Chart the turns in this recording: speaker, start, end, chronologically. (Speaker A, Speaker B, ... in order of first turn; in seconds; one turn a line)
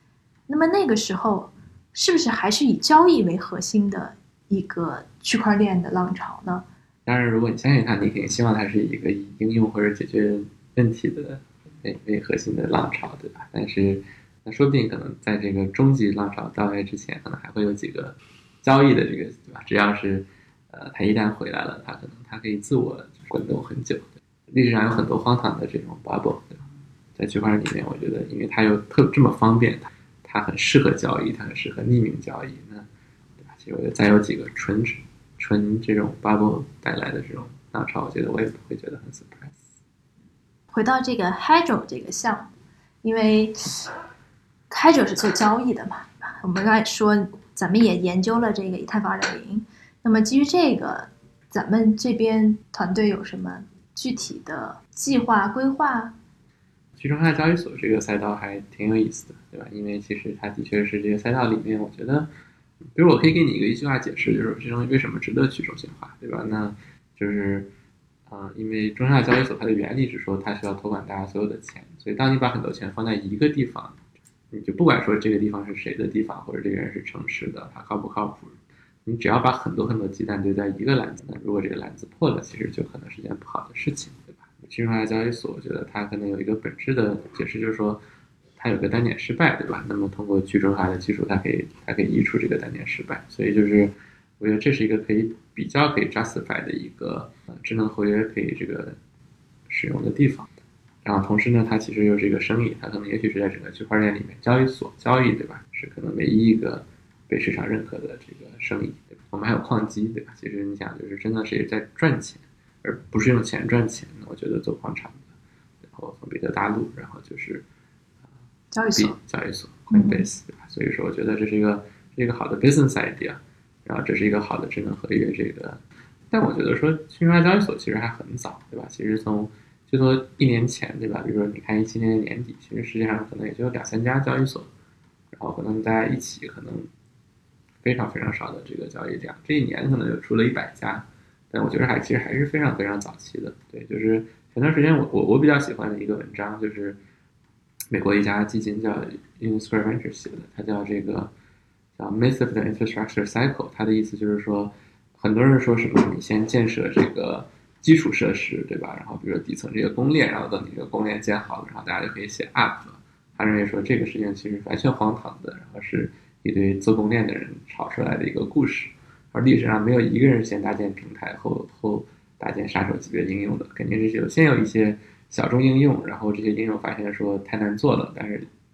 Speaker A: 0.5-6.6
Speaker B: 7.0-32.9
Speaker B: 33.4-39.6
Speaker A: 40.7-42.5
Speaker A: 43.0-43.9
Speaker A: 44.7-56.1
Speaker B: 57.0-62.3
Speaker B: 62.9-67.7
Speaker B: 68.3-88.0
Speaker B: 88.6-99.0
Speaker B: 99.7-100.5
Speaker B: 101.0-115.3
Speaker B: 115.9-117.6
Speaker A: 118.7-119.2
Speaker B: 118.9-134.7
Speaker A: 119.9-120.2
Speaker B: 135.3-136.9
Speaker B: 137.8-147.0
Speaker B: 147.9-151.3
Speaker B: 152.0-178.5